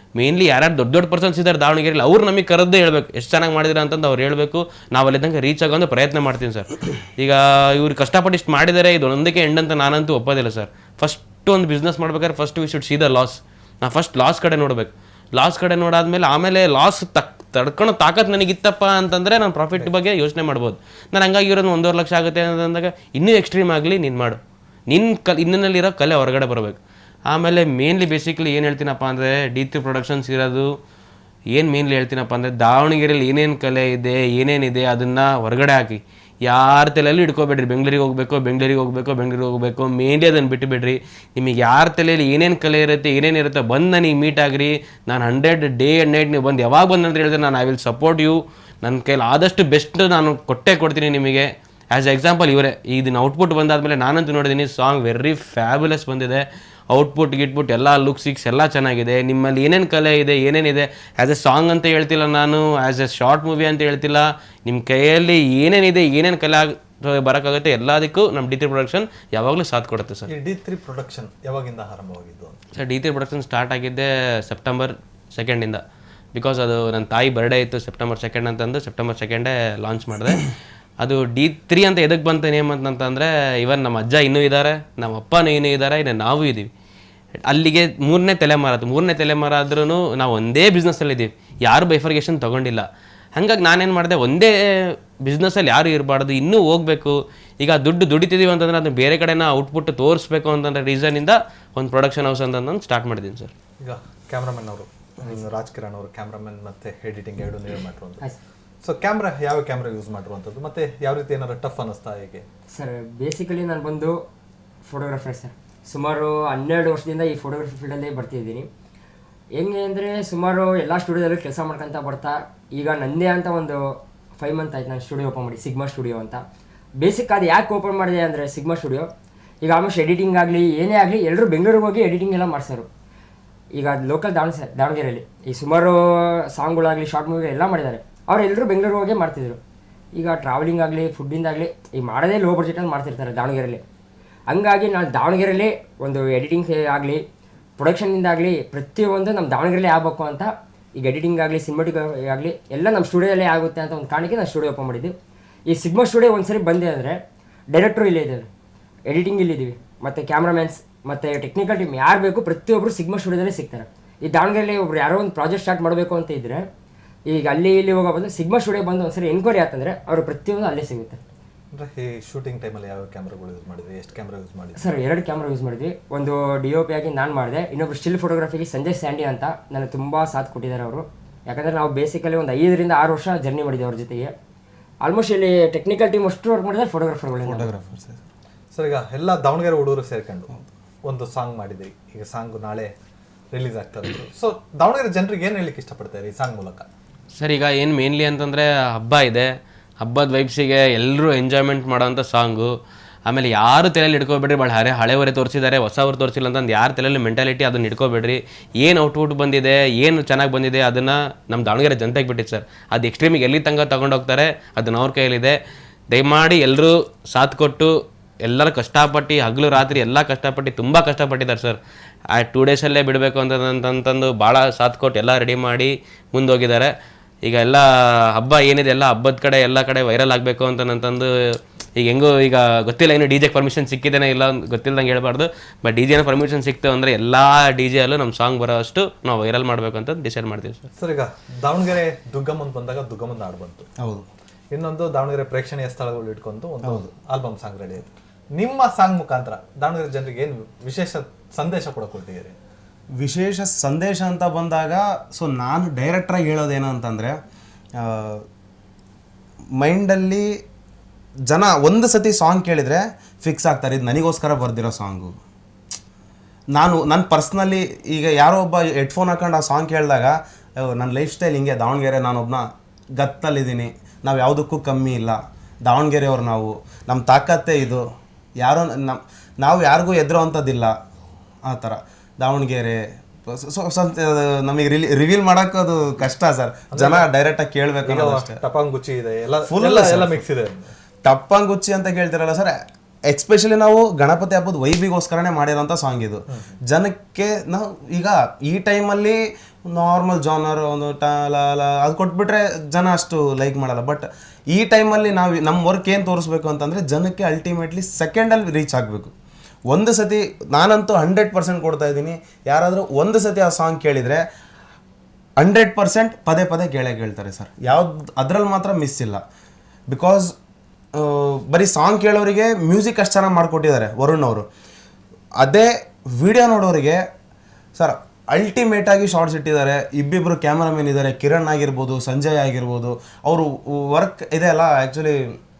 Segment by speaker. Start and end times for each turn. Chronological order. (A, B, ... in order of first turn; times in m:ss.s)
0:00.2-0:30.7 A
0:31.5-1:10.3 A
1:10.3-1:12.6 B
1:12.8-1:15.8 A
1:16.3-1:20.5 A
1:21.0-1:26.7 A
1:27.5-1:43.5 A
1:43.8-1:48.2 B
1:48.8-1:52.4 B
1:52.7-1:54.2 C
1:54.8-1:58.7 C
1:59.5-2:06.4 C
2:07.0-2:09.1 C
2:09.6-2:12.9 C
2:13.7-2:19.6 C
2:20.1-2:23.8 C
2:24.5-2:27.2 C
2:27.8-2:35.1 C
2:35.7-2:37.2 C
2:37.7-2:38.5 C
2:39.1-2:46.7 C
2:47.3-2:51.2 C
2:51.7-2:54.9 B
2:54.8-3:04.3 C
3:05.0-3:07.7 C
3:07.4-3:08.2 D
3:08.7-3:12.9 B
3:13.5-3:16.9 B
3:17.4-3:22.7 A
3:23.2-3:35.6 A
3:36.1-3:41.8 A
3:42.4-3:46.9 A
3:47.4-4:00.8 A
4:01.0-4:03.9 B
4:04.0-4:04.3 D
4:04.7-4:12.6 B
4:06.8-4:07.1 D
4:13.2-4:17.4 D
4:18.0-4:18.4 D
4:19.8-4:20.5 D
4:21.5-4:25.3 D
4:26.7-4:38.0 D
4:38.6-4:40.9 D
4:41.6-4:48.6 D
4:46.9-4:47.2 B
4:48.0-4:50.9 B
4:49.7-4:50.4 D
4:51.2-4:52.8 D
4:53.3-5:09.3 D
5:09.9-5:14.4 D
5:15.6-5:19.4 D
5:20.1-5:20.5 D
5:21.1-5:24.7 D
5:25.6-5:27.2 D
5:28.0-5:35.4 D